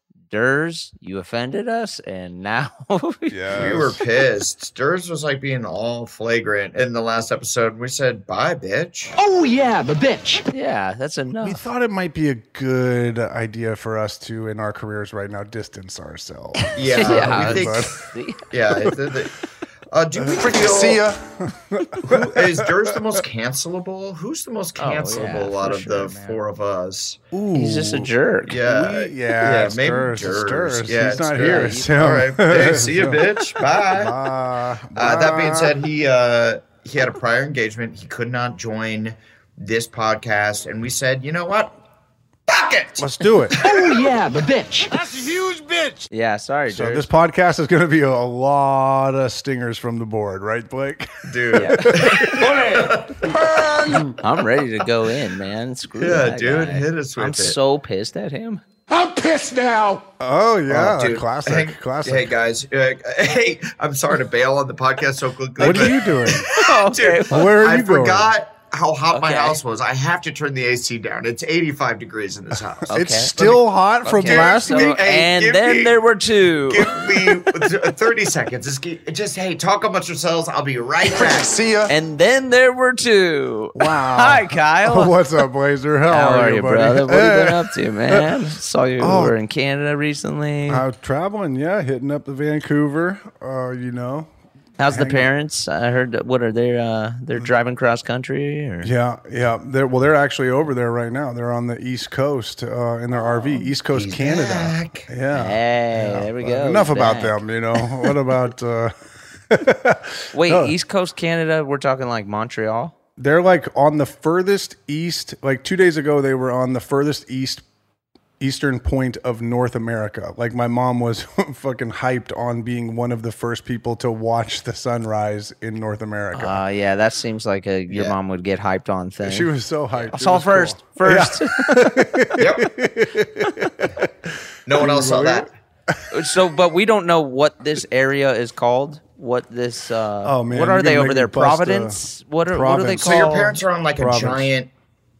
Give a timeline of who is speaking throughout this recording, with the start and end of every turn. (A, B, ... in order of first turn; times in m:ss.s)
0:00.3-0:03.6 A
0:03.3-0:04.0 B
0:03.5-0:09.1 C
0:09.2-0:10.5 D
0:10.5-0:11.6 A
0:11.4-0:18.0 B
0:16.8-0:19.3 C
0:16.9-0:18.4 A
0:19.9-0:21.1 C
0:20.3-0:23.2 B
0:22.0-0:27.2 C
0:24.8-0:26.4 A
0:27.3-0:35.8 B
0:27.5-0:28.6 A
0:28.5-0:34.1 C
0:31.3-0:31.9 A
0:35.0-0:41.8 C
0:42.5-0:43.8 C
0:43.0-0:43.6 B
0:43.6-0:45.4 D
0:46.1-0:47.1 A
0:46.7-0:52.2 B
0:51.3-0:53.3 C
0:51.6-0:51.9 A
0:52.3-0:54.1 D
0:54.1-0:58.6 A
0:56.0-0:57.6 C
0:58.9-1:00.1 D
1:00.2-1:02.4 B
1:00.7-1:13.6 C
1:05.6-1:06.5 B
1:06.5-1:07.4 A
1:07.3-1:08.3 B
1:09.1-1:09.6 A
1:12.9-1:13.4 A
1:12.9-1:15.1 B
1:14.0-1:16.9 A
1:14.2-1:16.0 C
1:16.7-1:21.6 C
1:21.9-1:25.2 A
1:23.8-1:28.3 B
1:26.1-1:30.8 A
1:29.0-1:29.4 B
1:30.7-1:34.3 B
1:34.8-1:38.9 A
1:34.9-1:35.3 B
1:38.8-1:48.9 B
1:43.9-1:45.1 C
1:45.3-1:47.4 A
1:49.5-1:50.7 B
1:50.3-1:52.9 A
1:53.2-1:57.6 B
1:58.4-2:06.6 B
2:06.3-2:12.1 A
2:07.9-2:08.2 C
2:09.2-2:16.0 B
2:12.4-2:12.7 C
2:14.7-2:15.5 C
2:16.1-2:23.2 A
2:20.2-2:24.5 B
2:23.0-2:24.7 C